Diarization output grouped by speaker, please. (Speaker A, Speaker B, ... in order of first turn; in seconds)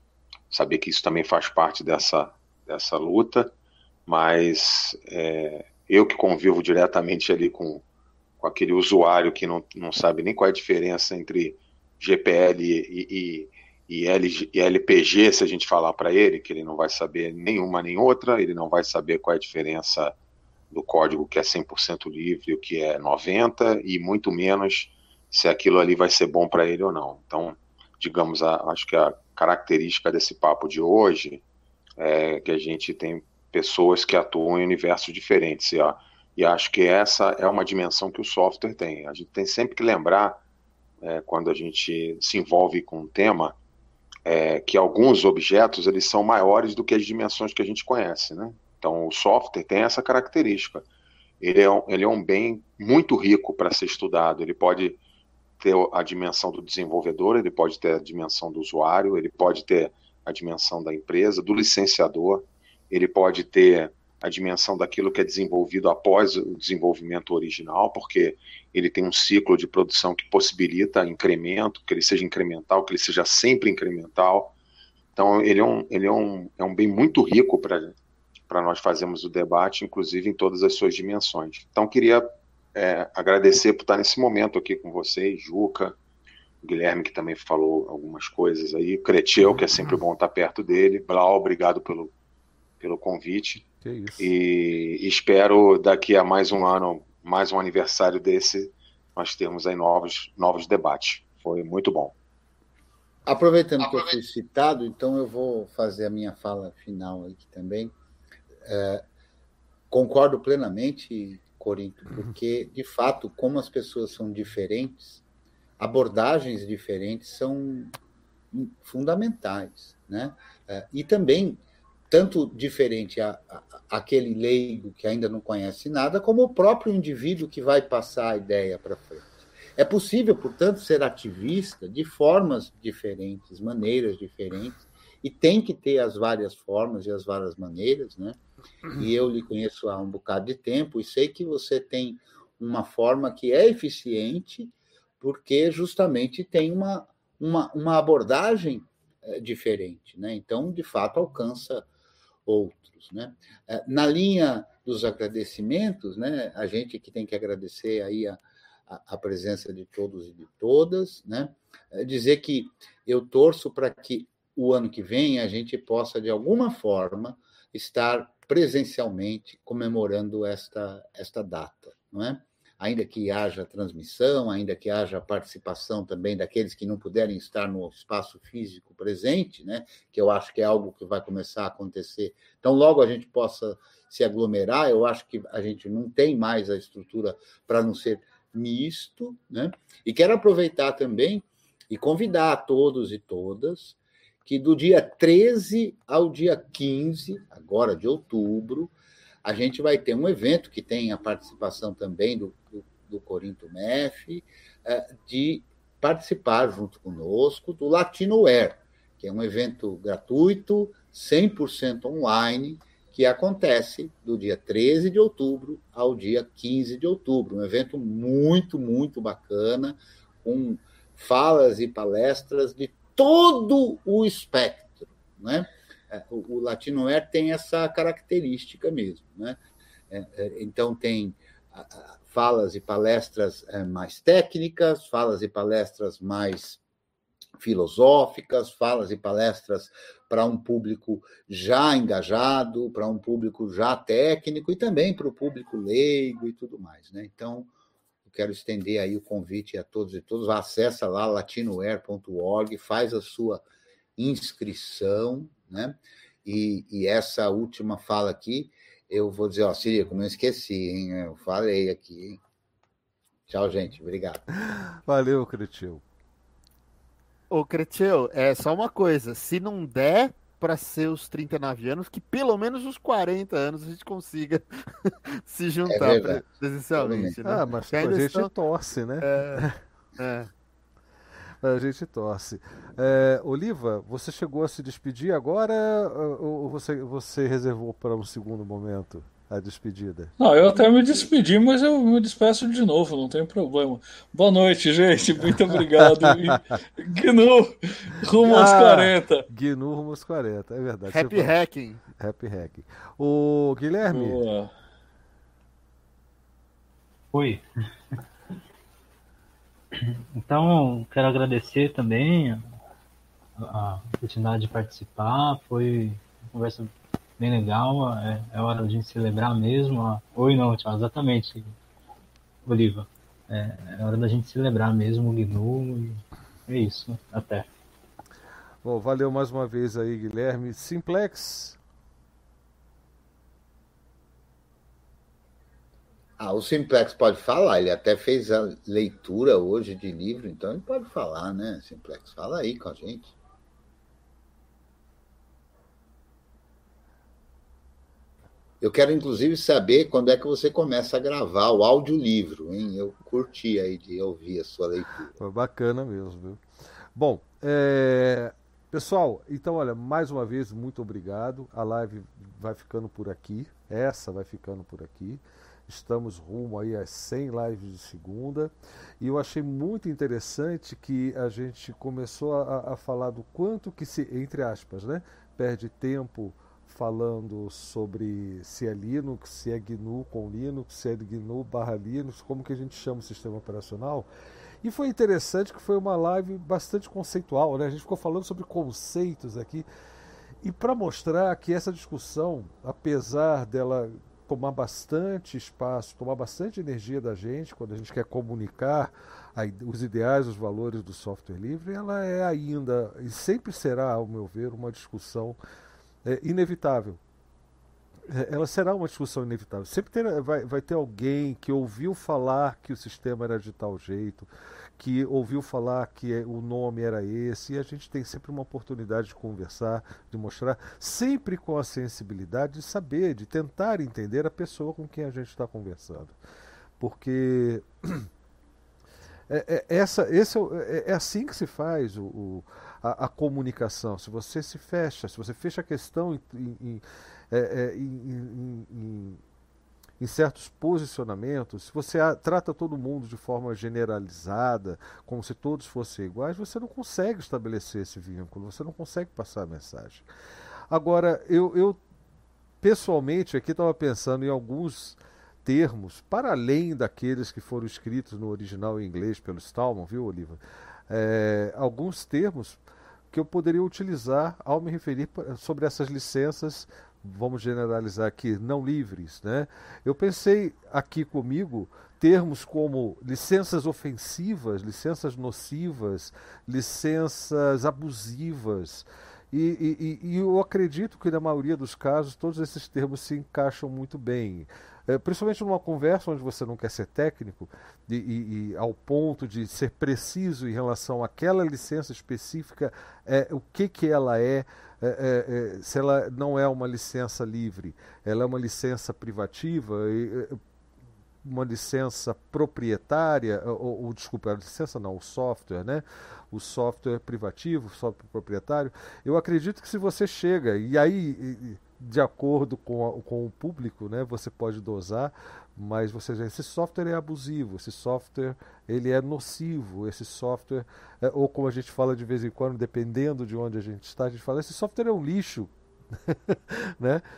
Speaker A: 0.5-3.5, 4.1-7.8, 8.4-20.1, 20.7-31.4, 32.0-40.4, 41.0-43.6, 44.3-50.9, 51.4-55.0, 55.6-74.5, 75.2-78.0, 78.5-86.0, 86.6-92.1, 92.8-93.7, 94.2-102.2
Speaker B: 93.8-94.3, 264.7-266.0, 277.4-279.8, 281.6-290.3, 298.4-301.7, 302.2-304.4, 328.8-331.8, 355.4-356.6, 357.1-384.3, 384.8-389.9, 390.6-405.6, 406.2-407.2, 408.3-426.4, 427.0-428.3, 429.5-439.4, 440.2-450.3, 450.9-452.0, 452.8-462.8, 463.3-500.6, 501.4-527.2
Speaker C: 103.3-107.9, 108.6-109.0, 109.9-115.2, 115.8-117.9, 118.5-138.4, 138.9-151.9, 152.5-229.6, 230.1-236.8, 237.6-247.7, 248.2-253.6, 254.2-262.4, 263.5-264.4, 275.9-276.4, 277.0-277.4, 336.4-343.4, 348.8-355.4
Speaker D: 267.5-278.5, 279.2-279.6, 280.2-280.5, 301.1-302.0
Speaker E: 290.4-299.5, 304.1-304.7
Speaker F: 307.3-307.6, 310.0-312.6, 313.6-321.7, 322.7-327.7